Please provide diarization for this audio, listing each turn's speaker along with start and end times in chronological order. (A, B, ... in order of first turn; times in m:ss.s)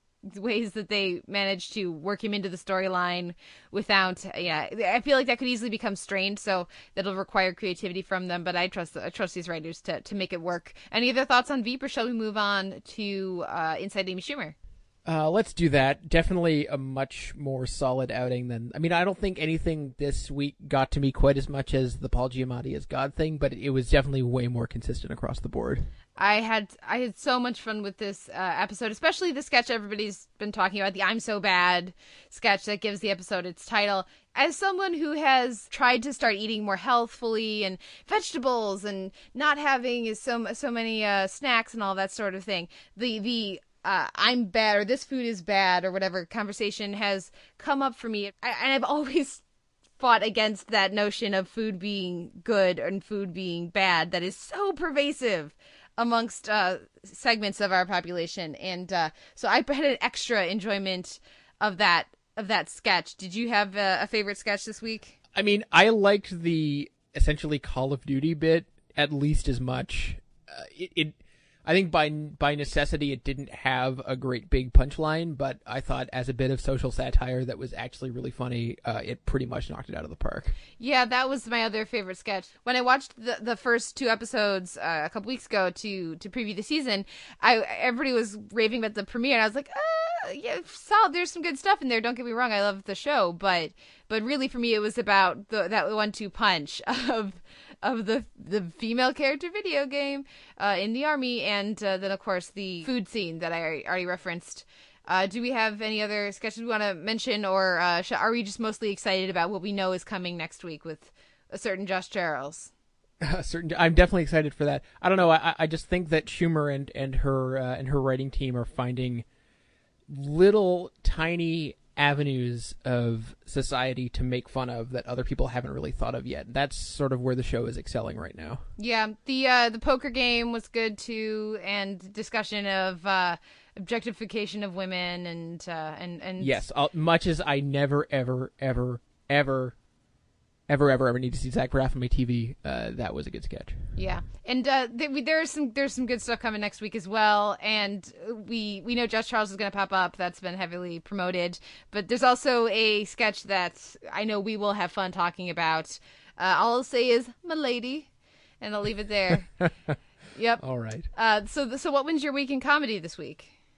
0:00.2-0:14.5 A
0:15.0-0:25.9 B
0:26.2-0:49.4 A
0:50.0-1:05.1 A
1:05.3-1:20.6 B
1:20.8-1:52.7 A
1:53.2-1:59.2 B
2:00.1-2:08.6 B
2:08.8-2:16.6 A
2:16.4-2:19.7 B
2:20.7-2:23.8 B
2:24.0-2:38.1 A
2:38.6-2:39.5 A
2:40.3-2:40.6 A
2:40.6-2:41.1 B
2:41.1-2:43.5 A